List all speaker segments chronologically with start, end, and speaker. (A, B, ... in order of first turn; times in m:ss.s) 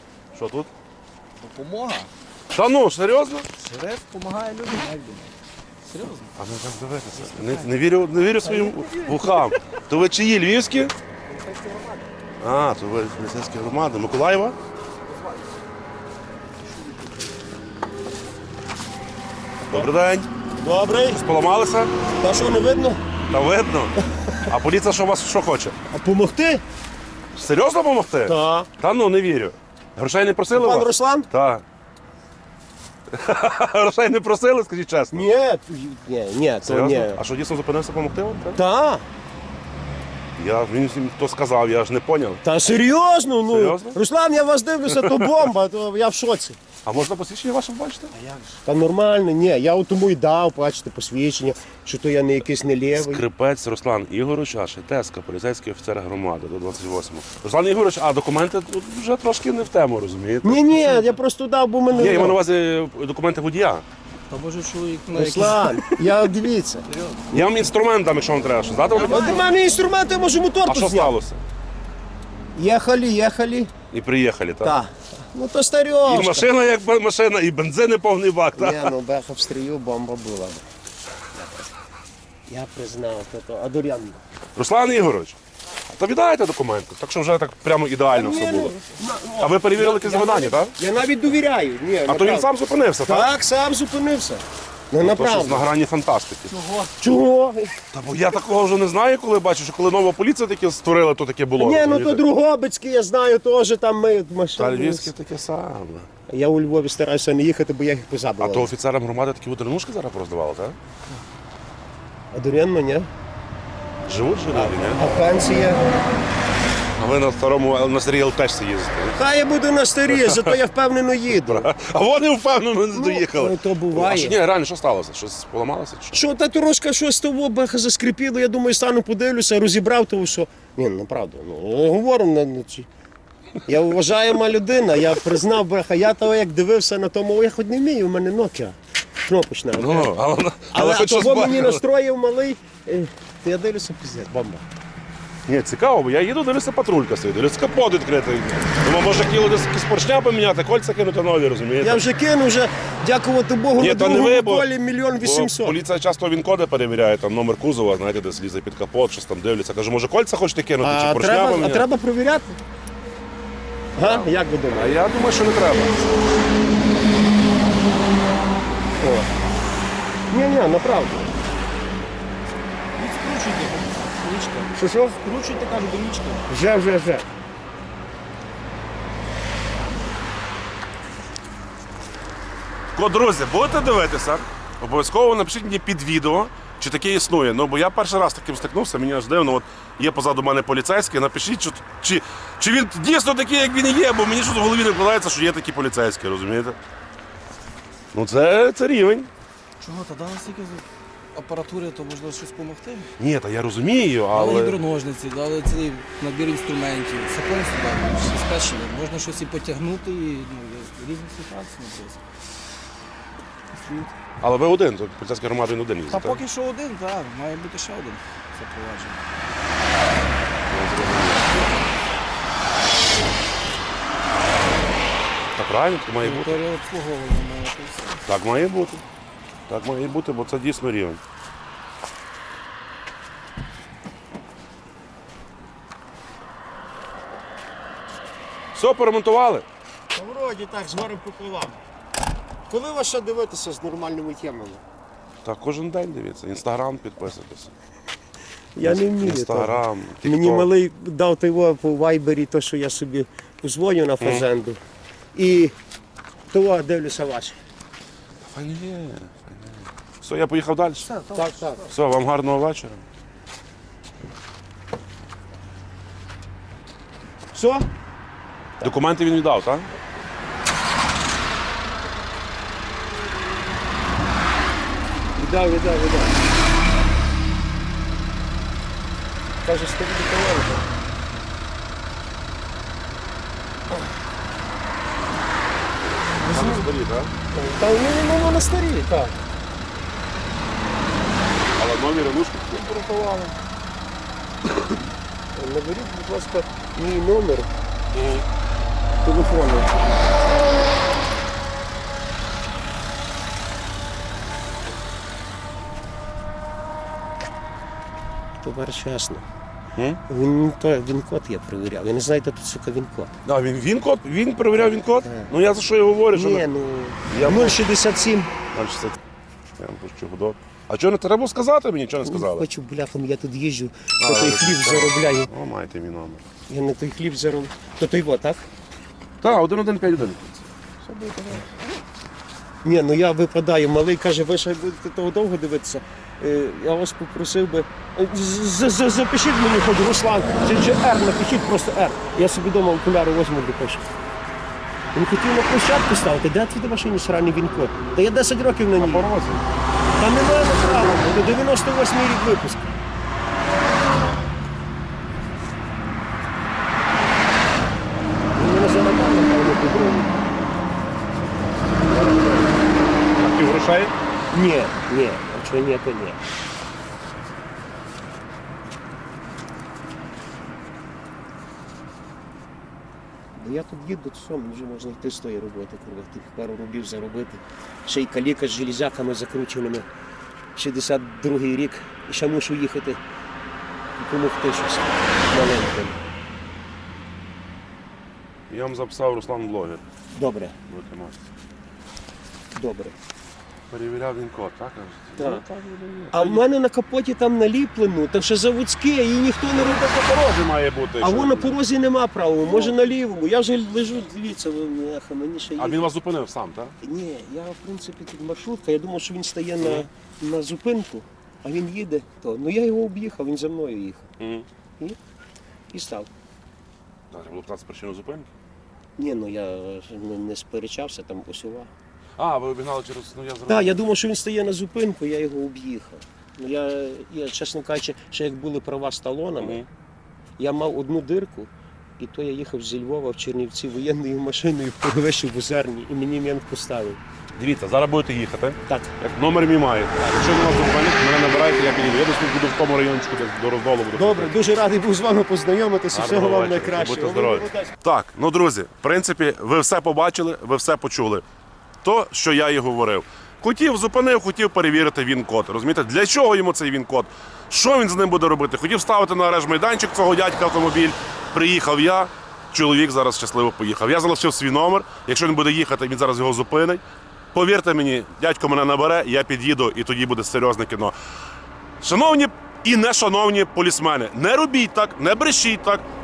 0:00.3-0:00.7 A
0:01.4-0:02.1 B
0:02.5-0:03.5 A
0:03.5-0:05.3 B
0:05.8-0:06.4 B
0:06.4-0:10.9 A
0:07.1-0:07.7 B
0:08.4-0:09.8 B
0:11.3-0:12.1 B
0:12.4-0:14.6 A
0:19.7-0:20.3 A
0:20.6-0:21.2 C
0:21.1-0:21.9 A
0:22.2-0:23.0 C
0:23.3-0:23.9 A
0:24.5-0:25.8 A
0:25.9-0:26.6 C
0:27.3-0:31.6 A
0:28.2-0:28.7 C
0:30.5-0:31.3 C
0:33.1-0:35.3 A
0:35.1-0:37.2 C
0:36.6-0:38.6 A
0:38.5-0:39.0 C
0:40.4-0:42.8 A
0:42.4-0:46.6 C
0:43.4-0:44.0 A
0:44.9-0:45.4 A
0:46.8-0:48.1 A
0:48.2-0:48.4 B
0:48.6-0:53.2 C
0:52.9-1:00.8 A
1:00.4-1:02.4 C
1:00.7-1:01.2 B
1:01.9-1:03.8 A
1:01.9-1:02.3 B
1:04.3-1:05.9 B
1:05.1-1:06.8 C
1:06.9-1:07.2 B
1:07.3-1:09.4 A
1:08.9-1:09.4 B
1:09.0-1:11.1 C
1:10.6-1:11.4 A
1:12.5-1:13.7 C
1:13.9-1:14.8 A
1:14.6-1:16.5 C
1:16.0-1:18.9 A
1:18.6-1:20.6 C
1:21.4-1:21.7 C
1:22.5-1:24.2 C
1:24.6-1:25.4 A
1:25.9-1:28.8 A
1:28.1-1:32.5 C
1:29.4-1:30.8 A
1:32.0-1:33.3 A
1:33.0-1:35.7 C
1:35.0-1:36.5 A
1:36.5-1:37.0 B
1:37.0-1:37.8 C
1:37.9-1:42.2 A
1:41.6-1:45.1 C
1:44.6-1:46.1 A
1:46.3-1:48.7 C
1:48.4-1:50.8 A
1:52.3-1:53.1 C
1:54.1-1:55.0 A
1:54.5-1:55.8 C
1:57.0-1:59.2 A
1:59.1-2:01.7 C
2:00.1-2:00.6 A
2:01.3-2:06.2 A
2:02.9-2:04.4 C
2:06.1-2:12.9 C
2:13.6-2:20.1 C
2:19.7-2:21.8 A
2:20.7-2:24.6 C
2:25.5-2:32.0 A
2:31.8-2:35.8 C
2:33.8-2:41.9 A
2:40.8-2:42.6 C
2:44.0-2:45.0 C
2:44.0-2:46.1 A
2:49.0-2:49.3 C
2:50.3-2:51.3 C
2:53.0-2:56.5 B
2:54.7-2:55.2 C
2:56.5-2:57.3 C
3:02.9-3:16.8 A
3:18.1-3:19.3 A
3:19.8-3:23.1 B
3:23.2-3:24.8 A
3:24.3-3:32.2 B
3:33.7-3:34.1 B
3:34.4-3:36.4 A
3:36.1-3:39.2 B
3:40.7-3:41.7 A
3:45.6-3:46.6 A
3:46.2-3:48.2 B
3:48.3-3:49.0 A
3:49.7-3:51.2 A
3:58.7-3:59.6 A
4:00.1-4:01.8 C
4:02.7-4:04.8 C
4:05.4-4:07.7 A
4:08.7-4:14.8 C
4:08.8-4:10.7 A
4:14.2-4:14.4 A
4:15.3-4:15.7 C
4:16.5-4:17.6 C
4:18.4-4:21.1 A
4:21.0-4:21.9 B
4:21.3-4:21.8 C
4:21.9-4:23.0 A
4:27.5-4:27.9 C
4:28.8-4:29.9 A
4:35.4-4:36.4 C
4:39.6-4:40.9 C
4:46.4-4:47.3 A
4:46.5-4:46.8 C
4:47.5-4:49.4 C
4:51.8-4:52.9 A
4:52.9-4:53.5 B
4:55.5-4:57.7 C
4:58.1-4:58.4 A
4:59.2-5:00.0 C
5:08.6-5:09.4 C
5:10.3-5:13.3 C
5:13.4-5:16.7 A
5:15.2-5:15.5 C
5:16.3-5:18.5 C
5:17.3-5:17.8 A
5:18.7-5:19.2 A
5:19.8-5:22.6 A
5:22.2-5:25.5 C
5:24.2-5:26.4 A
5:26.7-5:28.7 C
5:29.4-5:31.7 A
5:32.8-5:44.0 C
5:45.1-5:49.3 C
5:49.0-5:49.7 A
5:50.2-5:52.9 C
5:58.5-6:00.3 C
6:02.1-6:02.8 C
6:03.4-6:04.1 A
6:04.5-6:06.4 C
6:13.6-6:20.0 C
6:20.7-6:23.2 C
6:24.2-6:26.2 C
6:28.7-6:30.0 A
6:30.3-6:30.7 C
6:30.9-6:31.4 A
6:32.7-6:33.1 C
6:33.9-6:36.6 A
6:35.4-6:35.6 C
6:36.3-6:40.3 C
6:39.7-6:41.7 A
6:41.2-6:46.0 C
6:42.7-6:42.9 A
6:45.8-6:46.9 A
6:47.0-6:54.3 C
6:49.8-6:50.1 A
6:54.4-6:54.7 A
6:55.9-6:56.3 C
6:57.3-6:58.5 A
6:59.2-7:01.9 C
7:02.4-7:04.0 A
7:03.7-7:09.8 C
7:09.6-7:09.8 A
7:10.6-7:17.2 C
7:17.6-7:24.6 A
7:18.9-7:19.2 C
7:24.1-7:27.9 C
7:26.1-7:31.4 A
7:32.0-7:47.0 A
7:47.5-7:51.1 A
7:52.0-7:56.0 A